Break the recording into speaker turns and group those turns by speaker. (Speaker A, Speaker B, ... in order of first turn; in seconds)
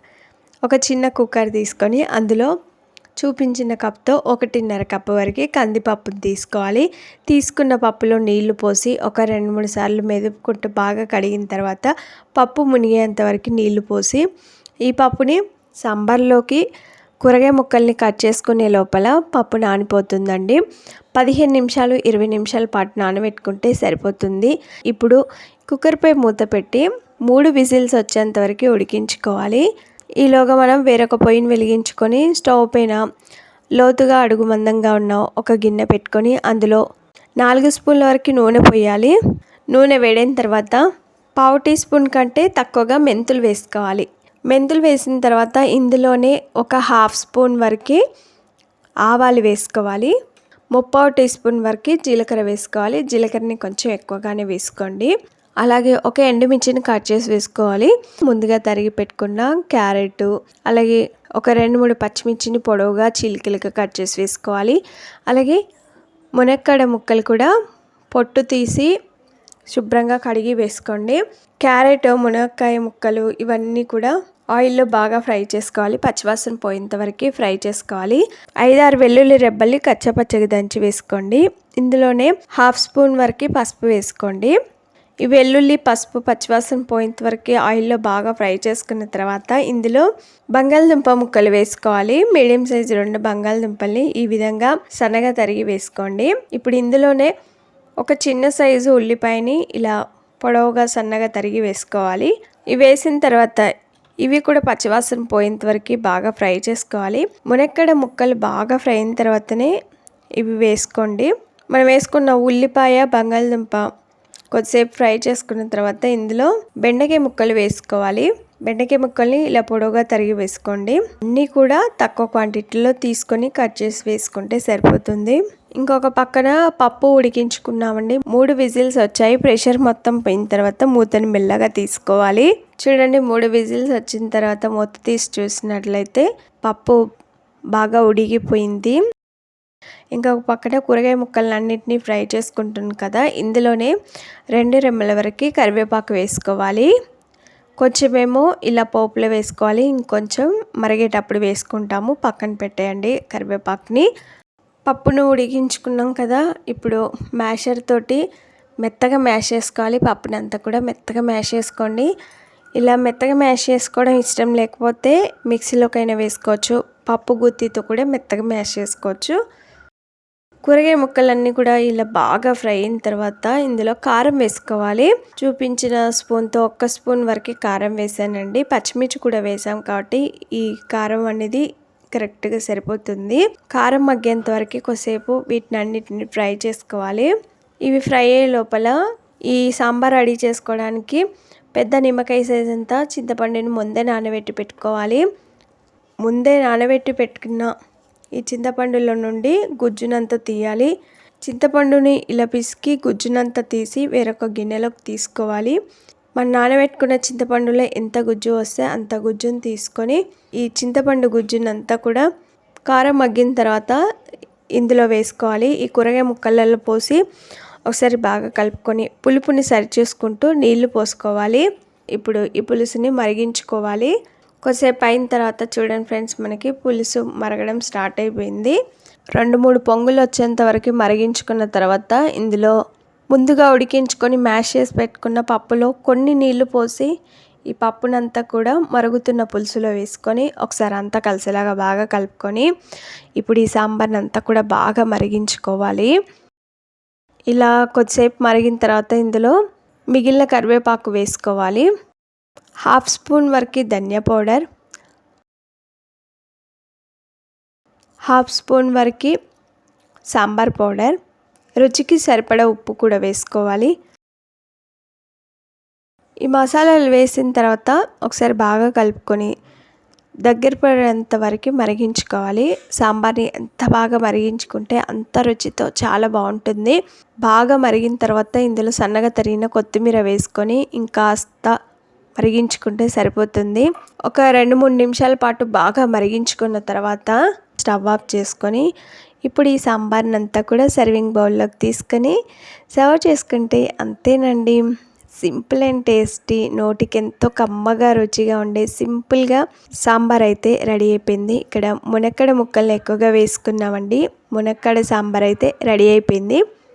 Speaker A: 0.7-2.5, 3.2-14.2, 14.9-16.6, 17.2-20.6, 21.2-29.6, 30.2-33.0, 33.8-36.8, 37.4-39.1, 39.7-40.8, 41.4-48.0, 49.1-50.1, 50.7-55.1, 55.6-64.8, 65.3-65.6, 66.4-67.5, 68.1-68.9, 69.7-84.5, 85.2-97.3, 98.0-103.7, 104.2-109.7, 110.4-113.9, 114.5-137.0, 137.8-139.0, 140.2-143.9, 144.6-146.9, 147.8-154.1, 154.9-158.2, 158.8-162.1, 162.8-169.4, 170.7-187.3, 187.9-189.0, 189.5-191.2, 191.8-195.2, 196.2-197.7, 198.4-200.9, 201.5-205.8, 206.4-212.3, 212.9-214.0, 214.8-217.2, 217.9-221.7, 222.2-224.1, 224.7-228.8, 229.4-232.8, 233.3-237.1, 237.7-242.7, 243.4-246.1, 247.5-249.6, 250.1-251.9, 252.9-254.7, 258.3-259.3, 260.3-261.1, 261.8-263.9, 266.5-269.5, 270.4-281.8, 282.4-288.9, 289.4-292.4, 292.9-294.8, 295.4-306.6